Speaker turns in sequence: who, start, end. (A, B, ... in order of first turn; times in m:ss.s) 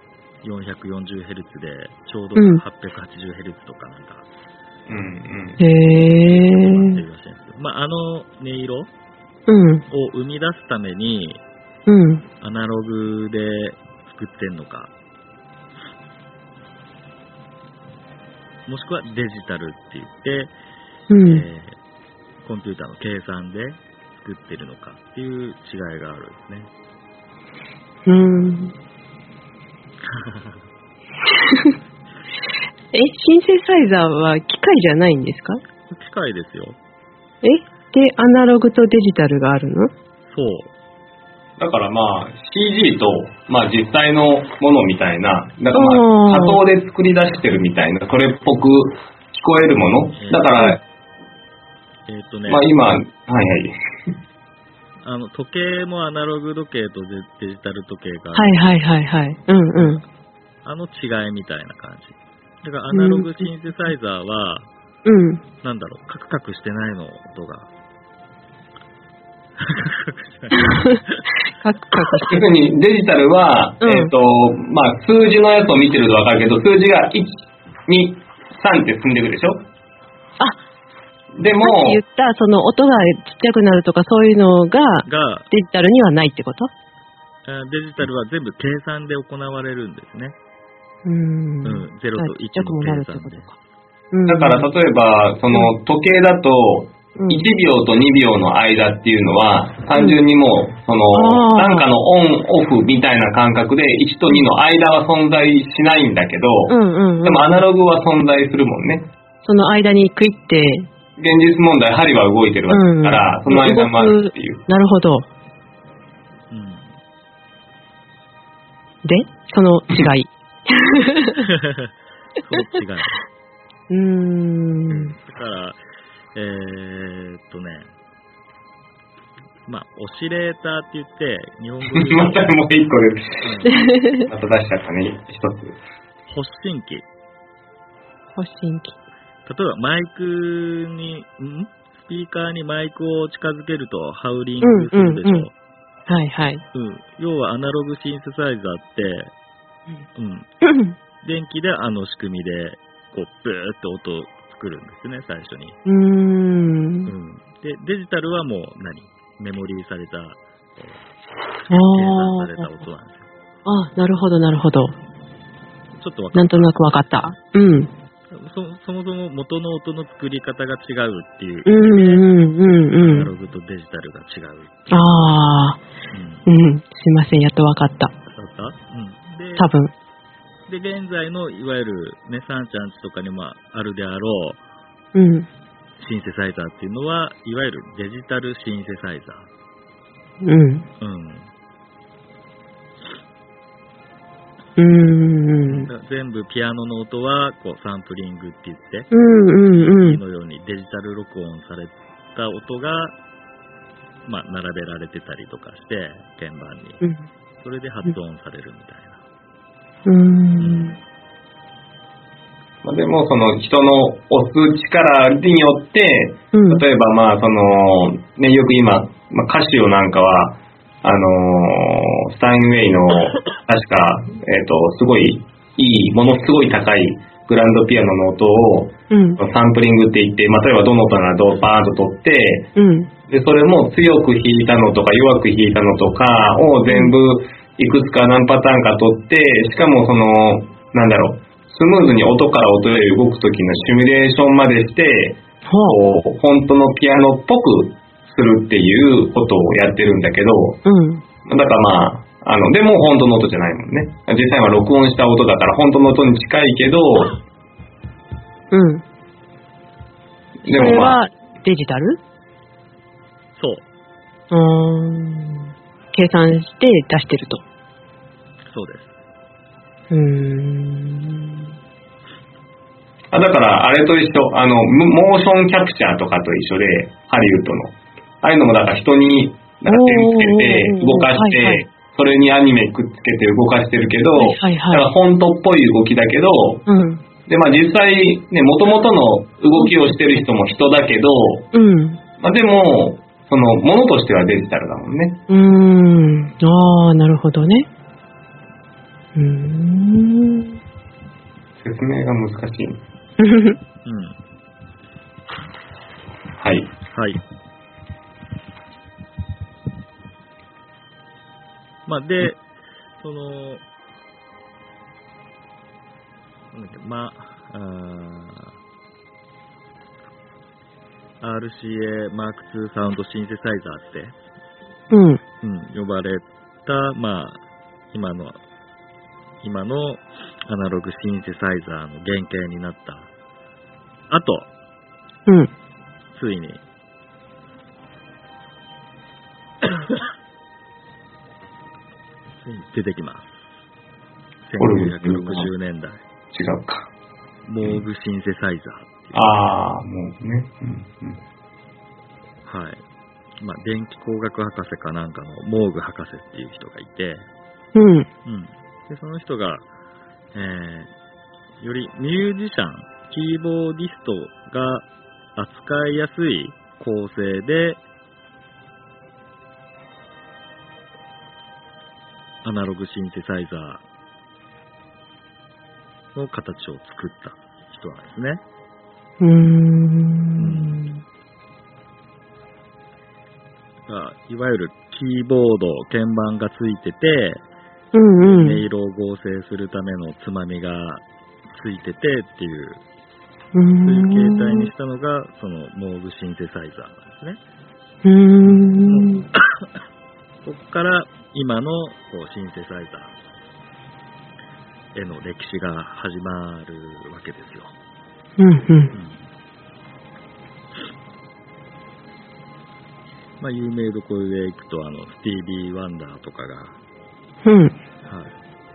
0:00.4-0:04.3 A
0:02.4-0:02.6 B
0:04.9-0:05.6 C
0:05.6-0:07.0 B
0:05.9-0:08.9 A
0:09.5-0:09.8 B
0:09.9-0:11.4 A
0:11.9-0:12.2 B
0:12.4-0:14.9 A
0:18.6-0:20.5 A
0:21.1-0:21.4 B
0:21.2-0:21.8 A
0:22.4-0:26.7 A
0:28.1-0:28.7 B
0:30.1-0:30.6 A
0:31.4-0:31.7 B
0:32.9-0:35.6 B
0:35.9-0:36.8 A
0:37.4-0:39.9 B
0:40.3-0:40.7 A
0:41.6-0:50.8 C
0:45.7-0:46.6 B
0:50.1-0:50.5 A
0:52.1-0:52.7 A
0:52.5-0:53.7 C
0:55.0-0:58.7 A
0:58.4-1:00.0 B
0:59.8-1:00.0 A
1:00.6-1:04.7 A
1:02.9-1:03.5 B
1:05.0-1:05.4 B
1:05.6-1:07.7 A
1:09.6-1:11.3 A
1:10.5-1:11.0 B
1:11.6-1:12.4 B
1:12.3-1:19.6 C
1:13.8-1:14.1 B
1:21.4-1:22.0 C
1:21.6-1:26.7 B
1:25.0-1:25.5 A
1:27.4-1:30.4 A
1:31.0-1:33.5 B
1:31.6-1:33.5 A
1:34.1-1:34.7 B
1:34.3-1:49.1 C
1:37.2-1:37.4 B
1:39.9-1:40.2 B
1:41.1-1:41.9 B
1:46.7-1:47.4 B
1:49.4-1:50.9 B
1:51.2-1:54.6 C
1:52.7-1:55.3 B
1:56.5-1:56.9 A
1:59.0-2:01.5 B
2:01.4-2:03.2 A
2:03.9-2:05.1 B
2:04.9-2:05.8 A
2:06.3-2:07.9 A
2:09.6-2:12.6 A
2:11.9-2:13.5 C
2:13.4-2:13.7 A
2:13.6-2:14.3 B
2:14.3-2:15.8 C
2:16.3-2:17.1 A
2:18.4-2:19.0 B
2:19.4-2:25.5 A
2:24.6-2:25.5 B
2:26.1-2:26.6 B
2:26.7-2:29.3 A
2:30.1-2:30.5 A
2:30.6-2:31.0 B
2:31.2-2:35.8 A
2:35.9-2:37.1 B
2:37.1-2:41.0 A
2:41.6-2:43.3 A
2:41.7-2:42.8 B
2:43.6-2:45.0 B
2:46.0-2:47.3 A
2:46.4-2:47.9 B
2:48.3-2:52.3 A
2:51.6-2:53.3 B
2:53.0-2:55.4 A
2:54.9-2:55.8 B
2:56.1-2:56.4 A
2:56.4-2:58.1 B
2:58.3-2:59.7 A
2:59.6-2:59.9 B
3:00.7-3:04.6 A
3:05.1-3:05.5 B
3:06.0-3:09.5 A
3:10.4-3:10.9 B
3:11.0-3:11.5 A
3:14.8-3:15.9 B
3:15.7-3:19.1 A
3:19.1-3:20.2 B
3:19.7-3:23.1 A
3:24.2-3:27.0 A
3:27.0-3:27.3 B
3:27.6-3:29.2 A
3:30.1-3:31.0 B
3:30.6-3:31.0 A
3:32.8-3:52.7 C
3:36.5-3:36.8 B
3:49.1-3:49.4 B
3:52.8-3:53.1 B
3:53.3-4:10.8 C
3:56.9-3:57.1 B
4:05.7-4:06.0 B
4:10.8-4:11.2 B
4:11.4-4:17.4 C
4:18.7-4:19.0 B
4:20.6-4:22.2 B
4:20.6-4:21.2 C
4:23.6-4:23.8 A
4:24.5-4:27.6 B
4:28.7-4:29.2 A
4:30.1-4:31.7 B
4:33.3-4:46.8 C
4:39.9-4:41.8 B
4:44.4-4:45.1 B
4:46.9-4:47.2 B
4:47.5-4:51.7 C
4:49.8-4:50.1 B
4:51.7-4:52.2 B
4:52.4-4:55.4 C
4:55.5-4:57.9 B
4:59.4-5:00.8 B
5:01.8-5:03.0 C
5:03.4-5:03.8 B
5:04.0-5:04.4 A
5:06.6-5:06.9 C
5:07.1-5:07.4 A
5:12.1-5:12.6 A
5:13.2-5:13.8 A
5:16.7-5:18.8 A
5:21.4-5:24.4 A
5:25.1-5:25.4 B
5:25.6-5:27.6 A
5:28.1-5:28.6 A
5:29.6-5:33.3 A
5:34.3-5:34.7 A
5:36.3-5:36.8 A
5:42.6-5:43.7 A
5:44.6-5:46.2 A
5:44.8-5:45.7 C
5:46.5-5:47.1 C
5:47.6-5:49.7 A
5:49.3-5:51.4 C
5:52.6-5:53.0 A
5:53.6-5:57.5 A
5:57.9-5:58.3 B
5:58.4-5:59.9 A
6:00.5-6:01.1 A
6:01.8-6:08.0 A
6:12.6-6:14.0 A
6:16.3-6:18.6 A
6:19.4-6:21.2 B
6:20.6-6:21.0 A
6:24.1-6:27.6 A
6:28.1-6:28.8 B
6:28.4-6:33.0 A
6:33.7-6:34.9 B
6:34.0-6:37.6 A
6:38.2-6:39.5 B
6:38.6-6:39.9 A
6:40.6-6:43.3 A
6:45.1-6:47.9 A
6:48.6-6:49.1 B
6:49.1-6:49.4 A
6:53.6-6:57.0 A
6:57.6-6:58.0 B
6:58.2-6:58.6 A